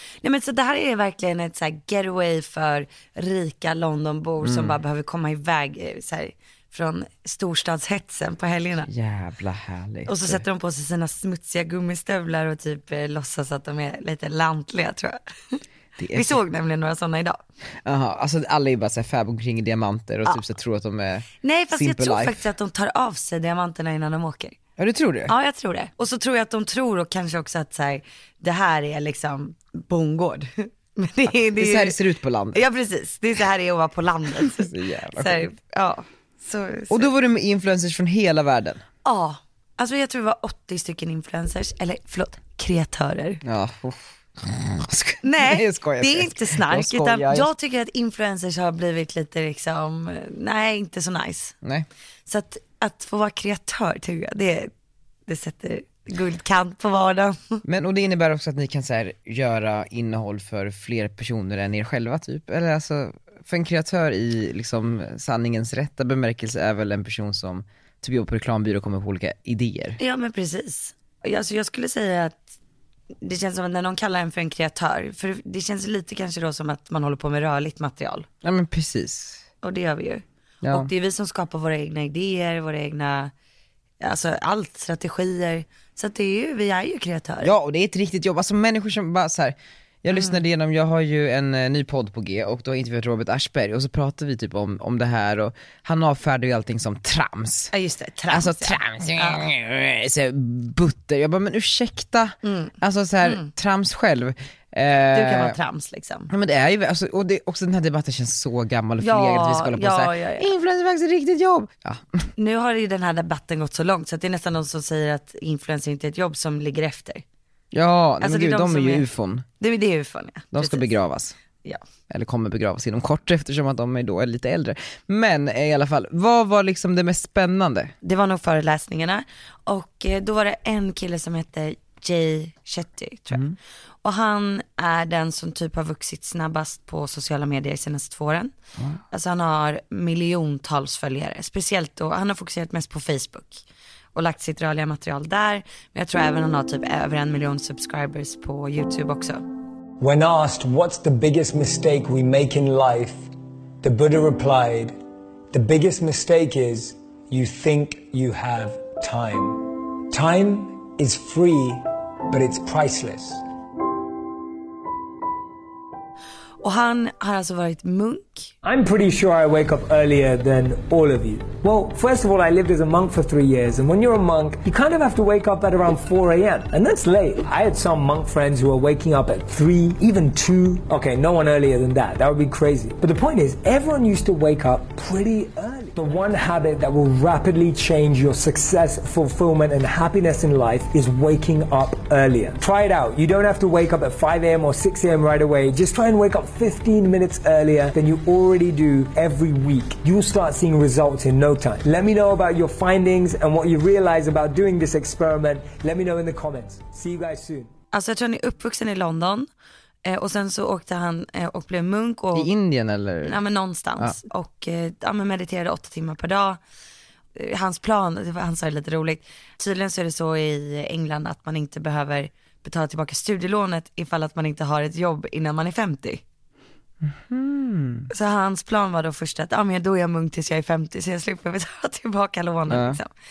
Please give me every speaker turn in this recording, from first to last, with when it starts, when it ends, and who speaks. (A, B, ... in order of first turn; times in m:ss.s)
0:00.2-0:08.9 A
0:04.4-0:04.8 B
0:08.9-0:10.4 B
0:10.1-0:15.6 A
0:16.0-0:16.4 B
0:16.1-0:17.4 A
0:17.8-0:22.4 B
0:21.4-0:24.6 A
0:24.8-0:25.3 B
0:25.3-0:32.0 A
0:31.6-0:32.6 B
0:32.6-0:37.1 A
0:34.4-0:35.4 B
0:36.9-0:38.8 B
0:39.0-0:43.4 A
0:43.4-0:47.5 B
0:45.2-0:51.6 A
0:52.3-0:54.7 A
0:55.3-0:57.6 A
0:57.6-1:10.0 B
1:10.0-1:12.5 A
1:13.2-1:18.3 A
1:18.4-1:19.4 B
1:19.6-1:23.3 A
1:24.0-1:27.5 A
1:27.4-1:37.7 B
1:30.1-1:30.4 A
1:37.7-1:39.4 A
1:38.3-1:45.6 B
1:42.4-1:43.5 A
1:45.1-1:46.3 A
1:46.3-1:52.2 B
1:49.0-1:50.5 A
1:52.4-1:57.2 A
1:57.7-1:59.4 B
1:58.2-1:59.1 A
1:59.6-2:00.9 A
2:00.5-2:01.4 B
2:02.1-2:07.9 B
2:08.0-2:13.4 A
2:14.0-2:18.5 A
2:19.1-2:23.6 A
2:24.2-2:29.4 A
2:30.0-2:33.3 C
2:33.8-2:35.0 C
2:35.5-2:43.4 C
2:46.6-2:48.5 A
2:48.6-3:27.7 C
3:27.9-3:29.5 A
3:30.0-3:32.5 A
3:32.4-3:33.4 B
3:33.3-3:36.6 A
3:37.4-3:46.2 A
3:47.0-3:48.1 B
3:48.1-3:53.1 A
3:52.7-3:53.0 B